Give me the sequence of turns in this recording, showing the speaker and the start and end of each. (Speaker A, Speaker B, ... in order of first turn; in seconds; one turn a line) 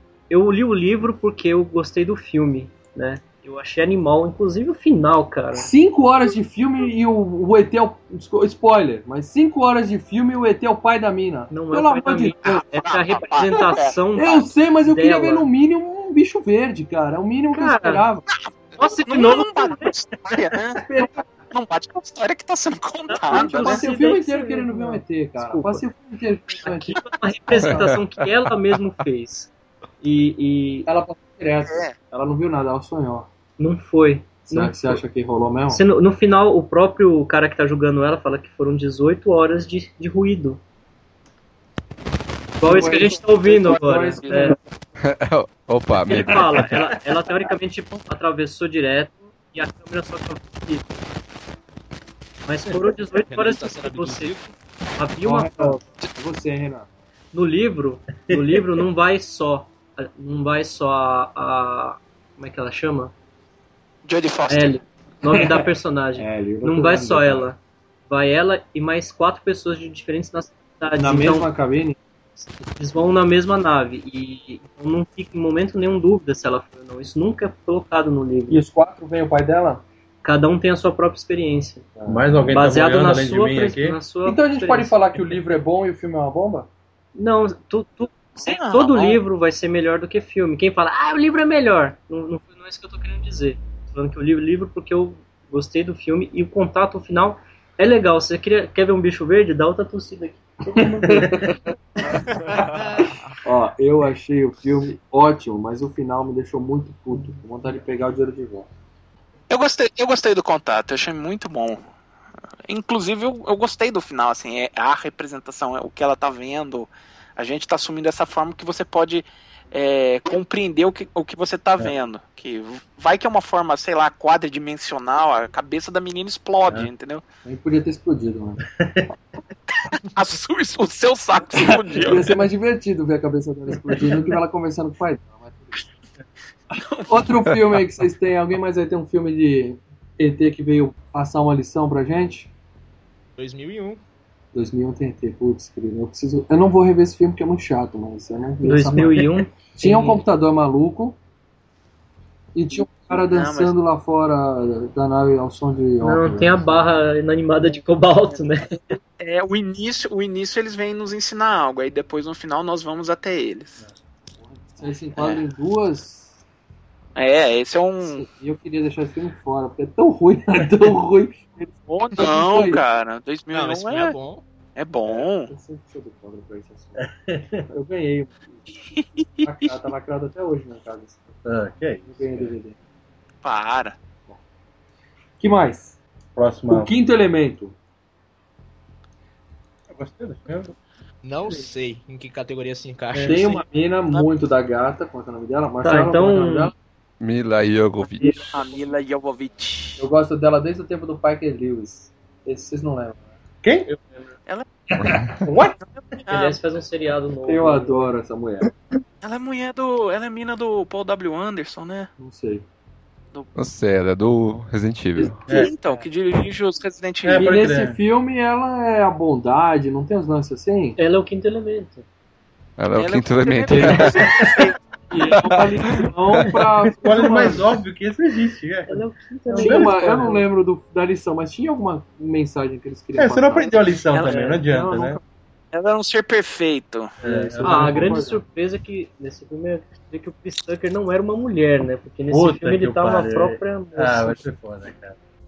Speaker A: 0.3-5.7
Speaker B: 5.5-12.6
Speaker A: 11.5-15.5
Speaker C: 12.4-13.9
Speaker B: 14.2-18.2
Speaker A: 17.5-18.1
Speaker C: 18.7-20.8
Speaker A: 18.8-19.9
Speaker B: 20.8-21.2
Speaker C: 21.5-23.8
Speaker A: 23.1-25.9
Speaker B: 23.3-27.0
Speaker A: 26.6-29.5
Speaker D: 27.6-28.1
Speaker A: 30.0-30.9
Speaker B: 30.9-33.3
Speaker C: 31.6-31.9
Speaker A: 33.6-35.0
Speaker B: 34.5-35.8
Speaker A: 35.7-40.6
Speaker A: 42.6-44.6
Speaker B: 42.6-44.6
Speaker C: 44.2-44.5
Speaker D: 45.0-46.7
Speaker A: 46.1-50.9
Speaker A: 52.5-55.8
Speaker E: 53.1-54.5
Speaker B: 55.2-56.9
Speaker A: 57.3-63.1
Speaker C: 64.0-64.8
Speaker A: 64.5-67.6
Speaker B: 65.2-67.5
Speaker A: 68.1-71.5
Speaker B: 71.0-72.0
Speaker A: 72.4-78.6
Speaker B: 78.5-79.8
Speaker A: 80.2-81.9
Speaker B: 82.0-82.5
Speaker F: 82.1-84.0
Speaker A: 82.5-85.0
Speaker B: 84.2-86.7
Speaker A: 87.2-101.5
Speaker C: 88.4-89.2
Speaker B: 100.8-101.6
Speaker B: 103.4-108.7
Speaker C: 109.5-111.8
Speaker C: 112.7-127.2
Speaker B: 127.4-128.6
Speaker F: 128.8-129.1
Speaker C: 129.9-132.3
Speaker B: 131.9-135.8
Speaker C: 136.8-137.1
Speaker B: 137.1-142.5
Speaker E: 143.4-144.0
Speaker B: 144.5-151.2
Speaker A: 148.6-150.2
Speaker B: 152.5-156.8
Speaker C: 153.2-153.7
Speaker A: 156.0-159.0
Speaker C: 159.2-163.8
Speaker B: 164.7-166.4
Speaker C: 165.2-165.4
Speaker C: 167.2-168.2
Speaker B: 168.0-172.8
Speaker C: 171.9-174.2
Speaker E: 173.5-174.4
Speaker C: 174.8-175.5
Speaker B: 175.1-177.1
Speaker F: 177.0-177.6
Speaker B: 177.7-178.8
Speaker C: 178.9-179.5
Speaker B: 179.4-181.4
Speaker F: 181.4-182.5
Speaker B: 182.0-182.8
Speaker C: 183.4-183.9
Speaker B: 185.4-186.0
Speaker F: 186.3-186.9
Speaker B: 186.7-187.7
Speaker F: 189.9-190.7
Speaker E: 191.2-193.6
Speaker A: 193.1-193.4
Speaker B: 193.2-196.7
Speaker A: 195.8-196.7
Speaker D: 197.2-198.4
Speaker C: 198.5-200.0
Speaker B: 200.0-203.2
Speaker F: 203.6-203.9
Speaker A: 203.9-204.3
Speaker D: 205.0-205.3
Speaker F: 205.4-205.8
Speaker C: 205.9-206.6
Speaker A: 206.3-208.1
Speaker B: 207.4-208.7
Speaker C: 209.2-212.1
Speaker B: 212.2-212.6
Speaker D: 213.6-215.4
Speaker F: 215.5-215.7
Speaker C: 215.5-217.6
Speaker F: 217.2-218.0
Speaker B: 217.3-221.0
Speaker A: 221.0-222.0
Speaker D: 222.8-224.3
Speaker C: 222.9-224.7
Speaker B: 223.7-224.3
Speaker B: 225.1-227.7
Speaker D: 225.4-225.6
Speaker F: 227.0-230.3
Speaker A: 228.9-230.4
Speaker B: 229.5-233.7
Speaker F: 233.2-235.2
Speaker C: 234.1-234.6
Speaker A: 234.3-234.6
Speaker B: 234.7-235.0
Speaker C: 235.7-237.1
Speaker F: 237.2-238.3
Speaker B: 237.2-238.4
Speaker A: 237.6-244.4
Speaker F: 242.3-245.2